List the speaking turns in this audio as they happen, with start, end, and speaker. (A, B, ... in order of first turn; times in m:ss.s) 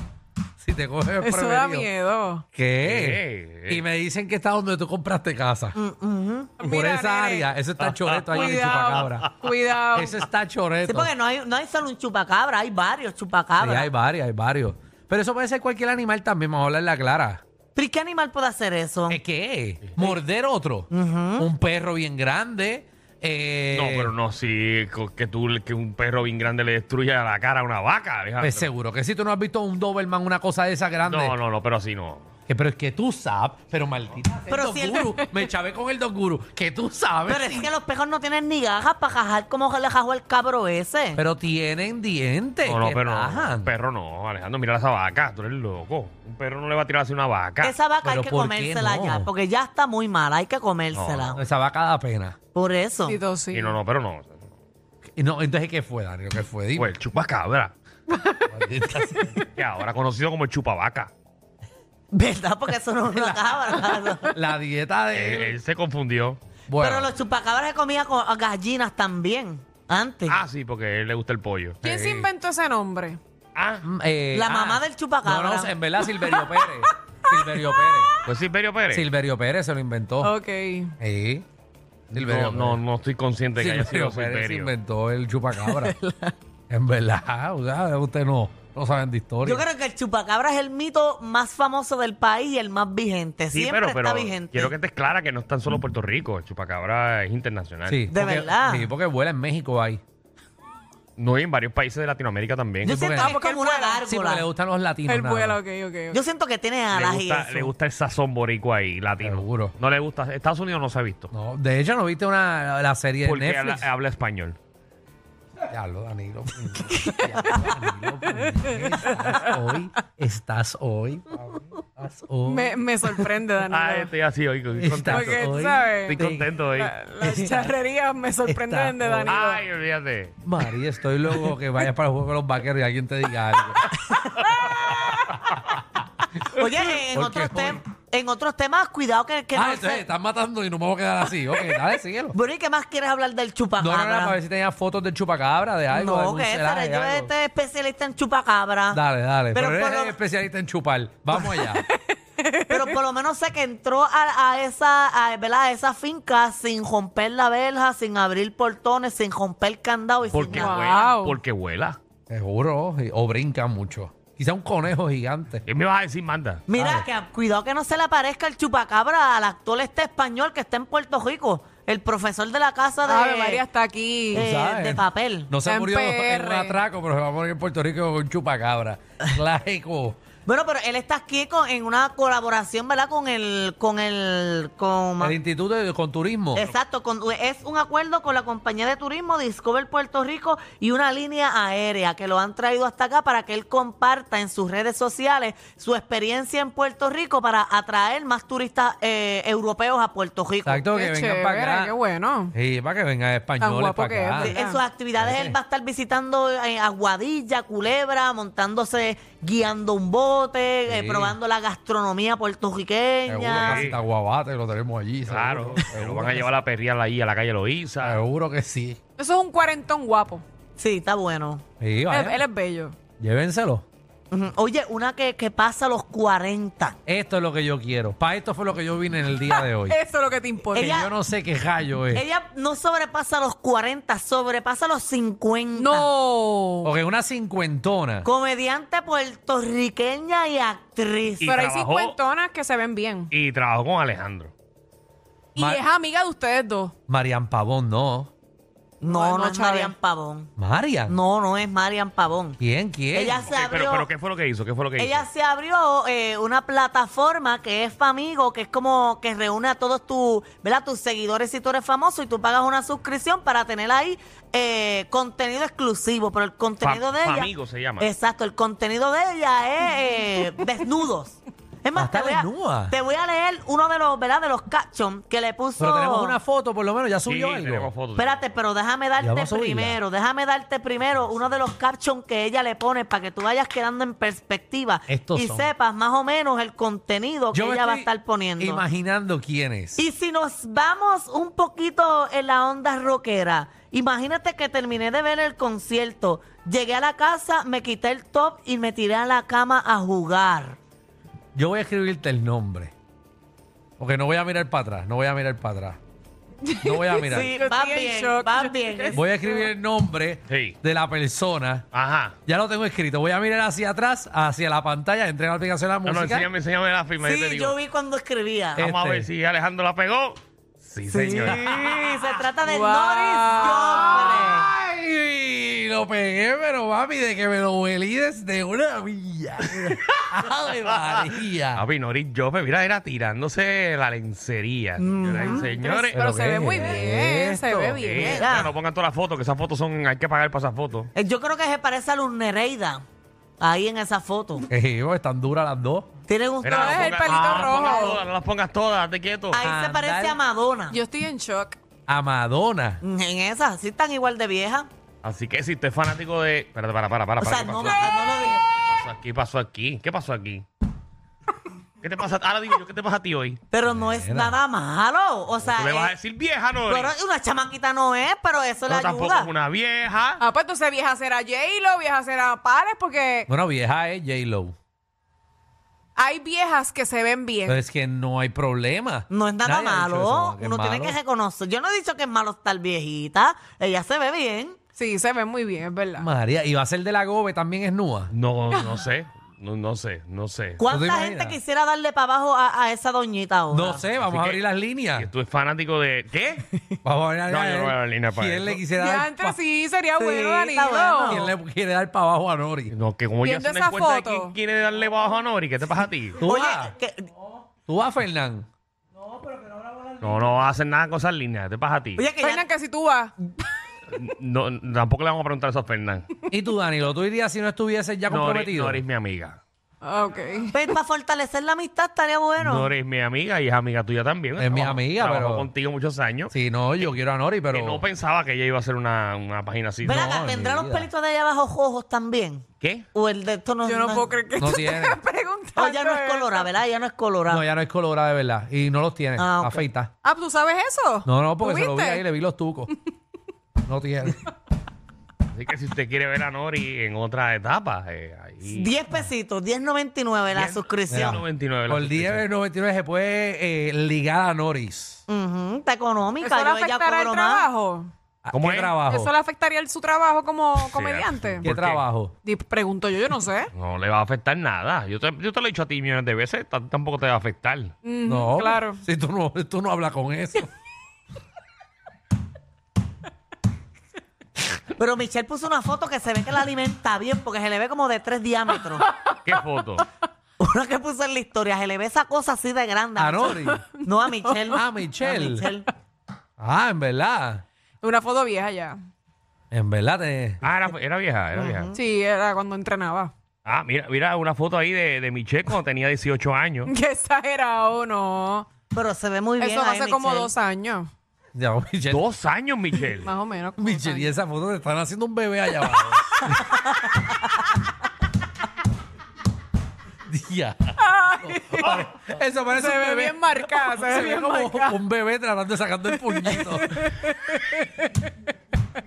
0:00.6-0:01.9 A
0:01.2-0:02.4 B
0:02.5-0:05.8 A
0:02.8-0:03.8 C
0:05.8-0:06.5 D
0:06.6-0:07.5 B
0:06.6-0:09.3 A
0:07.8-0:09.3 C
0:08.3-0:10.2 B
0:09.9-0:11.1 A
0:10.9-0:13.9 D
0:13.6-0:17.4 A
0:17.8-0:19.2 D
0:19.1-0:24.1 A
0:20.9-0:21.5 D
0:23.7-0:28.7 C
0:28.4-0:31.4 A
0:31.0-0:32.3 C
0:32.5-0:37.7 A
0:34.5-0:35.2 D
0:37.3-0:41.2 D
0:41.2-0:43.7 A
0:42.6-0:47.7 C
0:47.6-0:51.4 D
0:48.0-0:49.3 A
0:50.9-0:51.4 C
0:51.4-0:52.4 A
0:52.5-0:53.2 D
0:53.0-0:53.8 B
0:53.5-0:54.4 C
0:55.2-0:56.9 A
0:56.8-0:57.7 C
0:58.5-0:59.4 A
0:59.6-1:01.1 C
1:02.1-1:04.3 D
1:04.3-1:05.6 A
1:05.1-1:06.4 C
1:06.7-1:07.1 A
1:06.8-1:10.4 D
1:10.3-1:12.2 C
1:11.8-1:13.2 B
1:11.9-1:12.3 A
1:13.6-1:13.8 C
1:13.8-1:18.1 A
1:14.3-1:15.7 D
1:16.3-1:18.2 B
1:18.3-1:19.1 C
1:18.9-1:20.3 A
1:20.2-1:20.9 B
1:21.0-1:21.4 A
1:22.1-1:22.8 A
1:22.1-1:24.7 C
1:23.6-1:26.0 A
1:25.5-1:26.4 B
1:26.7-1:29.7 A
1:29.4-1:34.8 D
1:33.5-1:38.0 C
1:37.9-1:40.0 A
1:38.1-1:38.9 D
1:41.2-1:43.0 C
1:42.8-1:43.4 A
1:42.8-1:44.5 D
1:43.1-1:44.0 B
1:44.1-1:45.6 A
1:45.1-1:46.2 B
1:46.1-1:47.7 D
1:46.9-1:51.3 C
1:49.2-1:49.7 A
1:51.3-1:53.9 A
1:53.2-1:54.6 C
1:55.7-2:02.8 A
1:56.9-1:59.7 B
2:02.5-2:04.1 B
2:03.7-2:05.4 C
2:04.8-2:06.5 A
2:05.1-2:06.2 B
2:06.1-2:06.9 C
2:06.8-2:09.6 B
2:07.2-2:07.8 A
2:08.5-2:09.4 A
2:09.3-2:10.4 C
2:10.4-2:13.9 A
2:14.6-2:15.1 B
2:16.5-2:20.1 D
2:17.1-2:17.8 A
2:19.5-2:22.4 A
2:22.3-2:24.4 D
2:23.8-2:27.3 A
2:25.9-2:29.0 D
2:28.9-2:31.8 A
2:29.5-2:30.2 D
2:31.7-2:32.9 B
2:32.7-2:41.0 D
2:40.3-2:42.0 C
2:40.5-2:41.4 B
2:42.3-2:45.6 A
2:45.7-2:46.6 C
2:46.7-2:53.6 D
2:46.8-2:47.1 A
2:53.0-2:54.5 B
2:54.3-2:55.5 D
2:54.4-3:00.2 A
2:55.6-2:56.8 B
3:00.5-3:05.4 D
3:05.2-3:06.7 A
3:06.5-3:20.8 D
3:20.6-3:21.9 A
3:21.0-3:22.5 B
3:22.5-3:24.6 A
3:23.6-3:24.8 B
3:24.4-3:33.9 D
3:25.2-3:25.6 A
3:30.9-3:31.4 A
3:33.3-3:36.5 A
3:33.6-3:34.0 C
3:35.3-3:38.2 C
3:38.0-3:39.0 A
3:39.2-3:40.4 B
3:40.8-3:41.6 D
3:41.8-3:42.4 A
3:42.1-3:43.0 B
3:43.2-3:43.8 A
3:44.3-3:47.0 D
3:47.1-3:50.0 A
3:49.4-3:51.0 B
3:50.8-3:51.1 D
3:50.8-3:52.2 A
3:52.1-3:56.1 D
3:55.8-3:56.9 B
3:56.8-3:58.3 A
3:58.2-4:01.5 D
4:01.4-4:02.2 C
4:01.4-4:03.3 B
4:03.3-4:04.5 C
4:05.6-4:06.9 B
4:05.6-4:05.8 A
4:07.1-4:08.3 A
4:09.0-4:10.0 B
4:09.0-4:10.5 D
4:10.6-4:11.2 A
4:11.1-4:12.6 D
4:12.6-4:13.5 A
4:13.1-4:14.1 D
4:13.5-4:15.3 C
4:15.0-4:36.4 D
4:26.8-4:28.1 C
4:31.9-4:33.0 A
4:35.8-4:37.9 A
4:37.3-4:38.5 C
4:38.2-4:48.8 D
4:39.2-4:40.0 A
4:45.1-4:45.7 A
4:47.5-4:48.1 A
4:48.6-4:50.0 A
4:50.0-5:00.8 D
5:01.6-5:02.9 A
5:04.0-5:06.0 A
5:06.6-5:09.7 B
5:06.8-5:07.5 A
5:07.3-5:09.2 D
5:09.1-5:11.9 A
5:10.5-5:10.8 C
5:11.9-5:12.4 C
5:12.5-5:16.5 A
5:16.0-5:17.8 C
5:17.2-5:18.8 D
5:18.8-5:19.3 A
5:18.8-5:22.0 C
5:21.1-5:24.7 D
5:22.6-5:24.4 B
5:24.3-5:31.8 A
5:30.9-5:36.2 C
5:35.0-5:35.7 D
5:35.5-5:38.5 B
5:36.1-5:38.0 A
5:37.9-5:41.1 C
5:38.2-5:38.7 D
5:41.2-5:43.0 D
5:43.6-5:44.7 D
5:44.7-5:46.1 A
5:46.3-5:48.2 D
5:46.6-5:49.6 C
5:46.7-5:48.2 B
5:49.5-5:51.0 D
5:49.6-5:50.4 A
5:50.9-5:51.8 B
5:52.1-5:53.0 A
5:53.0-5:54.9 D
5:55.2-5:58.2 C
5:57.4-5:58.6 D
5:58.9-6:00.6 C
6:02.0-6:03.6 C
6:03.7-6:06.1 D
6:03.8-6:04.6 A
6:05.6-6:07.2 C
6:06.9-6:09.5 D
6:08.9-6:10.4 C
6:10.4-6:13.5 B
6:13.5-6:14.8 A
6:16.2-6:17.8 B
6:17.7-6:21.2 A
6:19.3-6:24.8 D
6:25.0-6:26.3 B
6:26.2-6:28.3 A
6:28.3-6:30.8 C
6:28.7-6:29.0 B
6:30.8-6:34.1 D
6:30.9-6:31.6 A
6:33.7-6:35.3 A
6:34.1-6:34.6 C
6:35.2-6:36.7 C
6:37.0-6:39.6 A
6:37.5-6:38.8 C
6:38.9-6:41.5 B
6:40.2-6:41.5 D
6:41.3-6:42.9 A
6:42.9-6:46.4 C
6:43.4-6:44.6 B
6:46.4-6:46.9 A
6:46.4-6:47.3 D
6:47.9-6:48.7 A
6:50.2-6:52.3 C
6:52.2-6:52.6 D
6:52.4-6:53.3 B
6:54.1-6:56.3 C
6:56.5-6:59.0 A
6:58.3-6:59.6 C
7:00.0-7:00.8 B
7:00.7-7:02.9 D
7:02.6-7:07.2 C
7:04.6-7:05.7 A
7:06.5-7:08.0 A
7:07.7-7:10.3 C
7:10.0-7:11.1 A
7:10.0-7:14.3 D
7:12.8-7:13.1 C
7:13.8-7:16.7 B
7:14.6-7:15.2 A
7:15.8-7:17.6 D
7:17.5-7:20.1 A
7:19.4-7:19.9 D
7:20.2-7:22.2 B
7:21.3-7:22.9 A
7:23.9-7:24.4 A
7:25.5-7:28.9 C
7:28.7-7:31.4 D
7:30.5-7:32.5 C
7:31.1-7:35.2 A
7:35.3-7:37.7 D
7:36.4-7:38.1 B
7:38.4-7:39.3 A
7:38.5-7:39.1 C
7:39.1-7:41.7 B
7:40.8-7:42.1 C
7:41.6-7:42.4 A
7:42.4-7:43.7 B
7:43.8-7:47.9 C
7:48.0-7:49.0 B
7:48.3-7:50.7 A
7:55.0-7:59.1 D
7:59.5-8:00.1 C
8:00.6-8:05.9 D
8:03.2-8:03.8 A
8:04.0-8:04.8 B
8:04.7-8:05.7 A
8:06.6-8:07.6 A
8:08.0-8:09.0 B
8:09.7-8:10.6 A
8:10.6-8:11.9 C
8:11.6-8:12.0 D
8:11.9-8:13.3 B
8:13.7-8:16.9 C
8:16.8-8:18.7 B
8:18.9-8:20.5 D
8:19.6-8:21.1 B
8:21.6-8:22.2 A
8:22.1-8:23.3 C
8:23.2-8:24.3 B
8:23.8-8:26.7 A
8:30.3-8:37.1 A
8:31.0-8:32.0 B
8:32.8-8:35.0 B
8:36.1-8:38.3 B